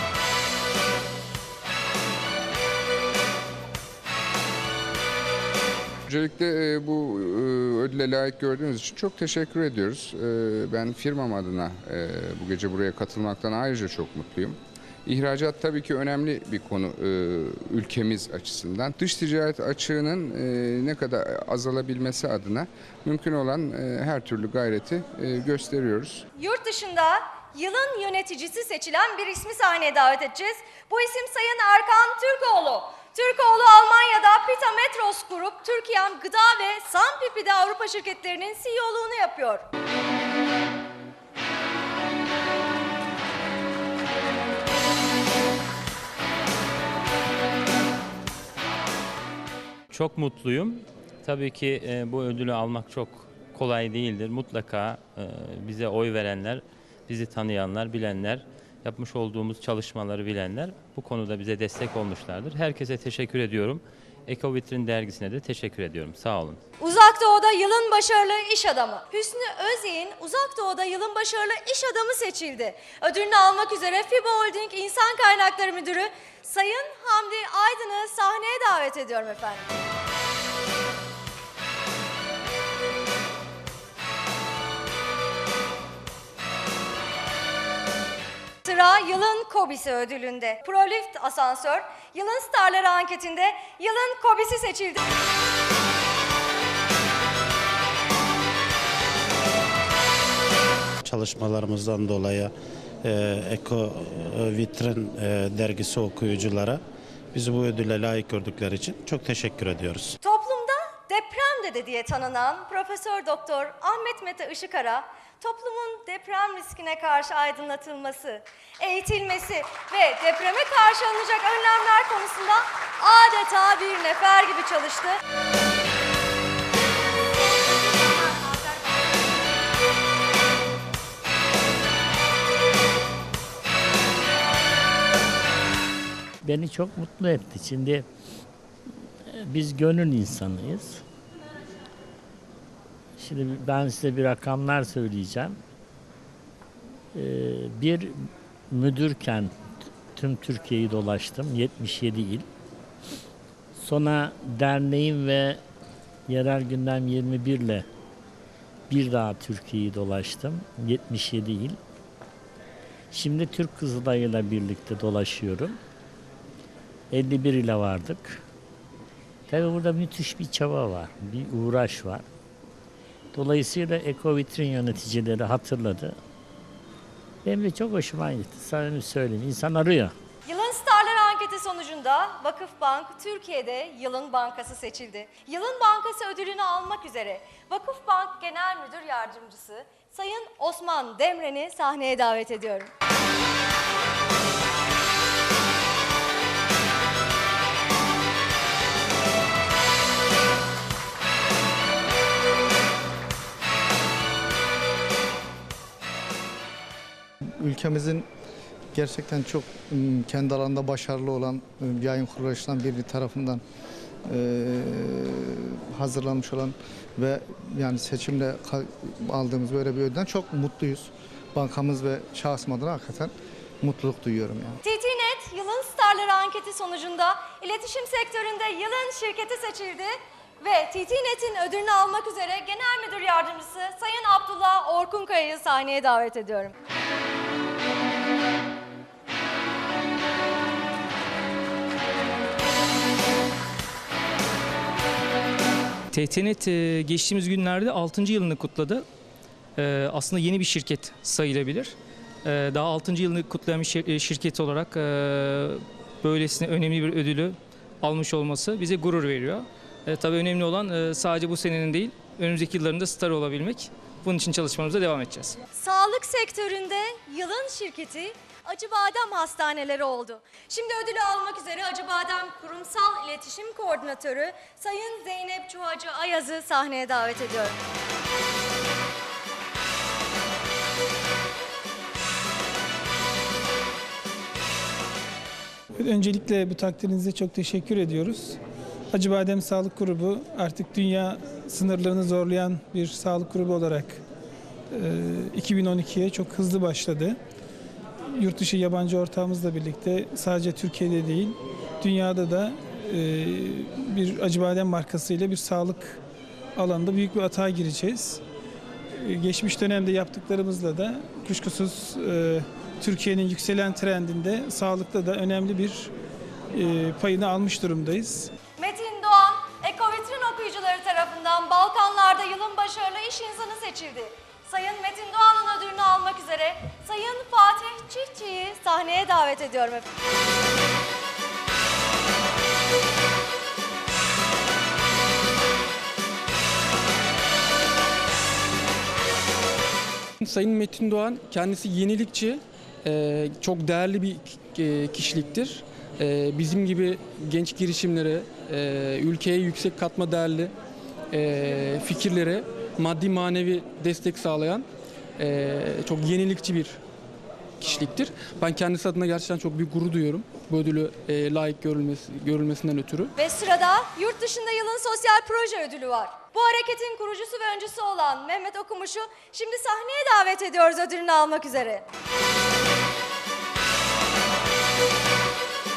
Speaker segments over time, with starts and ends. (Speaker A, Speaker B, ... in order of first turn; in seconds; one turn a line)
Speaker A: 6.1-26.3
Speaker B: 26.4-39.7
Speaker C: 49.9-66.6
Speaker B: 66.8-79.7
Speaker B: 88.7-95.0
Speaker D: 101.0-106.8
Speaker D: 107.3-110.2
Speaker B: 110.2-125.2
Speaker B: 127.3-129.2
Speaker E: 136.4-138.1
Speaker E: 139.3-141.0
Speaker E: 143.2-145.6
Speaker E: 147.1-149.5
Speaker E: 150.1-152.5
Speaker E: 153.8-155.6
Speaker E: 156.3-157.8
Speaker E: 158.9-161.8
Speaker E: 163.1-165.8
Speaker E: 167.1-168.4
Speaker E: 169.5-172.2
Speaker E: 173.3-176.2
Speaker E: 177.4-180.1
Speaker B: 180.4-192.9
Speaker F: 207.6-208.3
Speaker F: 208.9-213.6
Speaker F: 214.3-224.8
Speaker B: 224.8-236.7
Speaker G: 246.1-249.1
Speaker G: 249.8-265.6
Speaker B: 265.8-277.8
Speaker H: 286.0-288.6
Speaker H: 289.1-294.2
Speaker H: 294.9-297.4
Speaker H: 298.3-306.2
Speaker H: 306.8-308.4
Speaker H: 309.1-316.1
Speaker H: 316.7-318.5
Speaker B: 318.8-330.1
Speaker I: 340.4-350.7
Speaker I: 351.3-354.9
Speaker I: 355.4-357.0
Speaker I: 357.8-363.3
Speaker B: 363.4-372.1